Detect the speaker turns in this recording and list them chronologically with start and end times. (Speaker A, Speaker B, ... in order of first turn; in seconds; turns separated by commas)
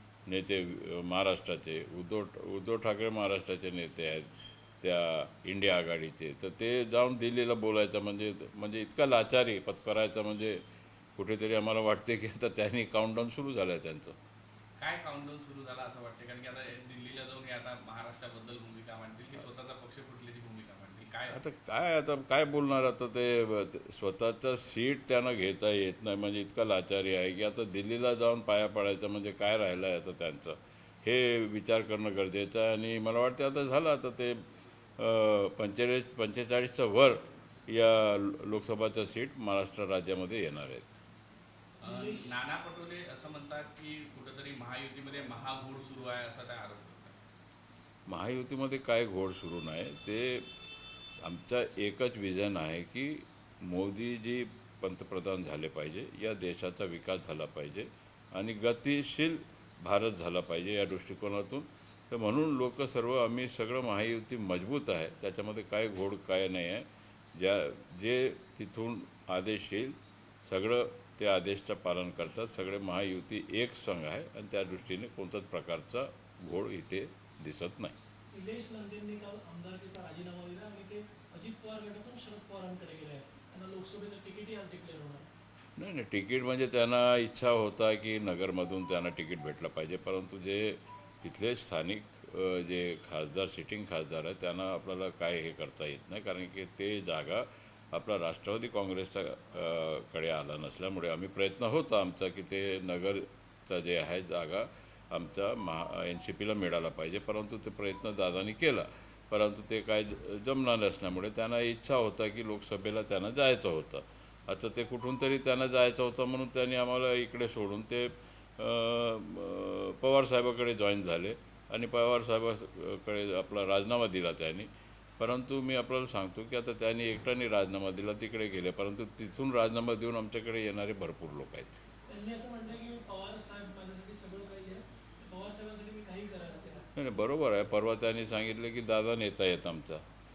Speaker A: 0.3-10.6, Speaker A: 11.2-14.2, Speaker B: 14.8-21.4, Speaker A: 21.3-34.4, Speaker A: 35.0-40.9, Speaker C: 41.8-42.4, Speaker B: 41.8-47.2, Speaker A: 48.1-50.5, Speaker A: 51.2-78.0, Speaker C: 78.3-85.3, Speaker A: 85.8-131.8, Speaker C: 132.1-136.8, Speaker A: 136.9-140.0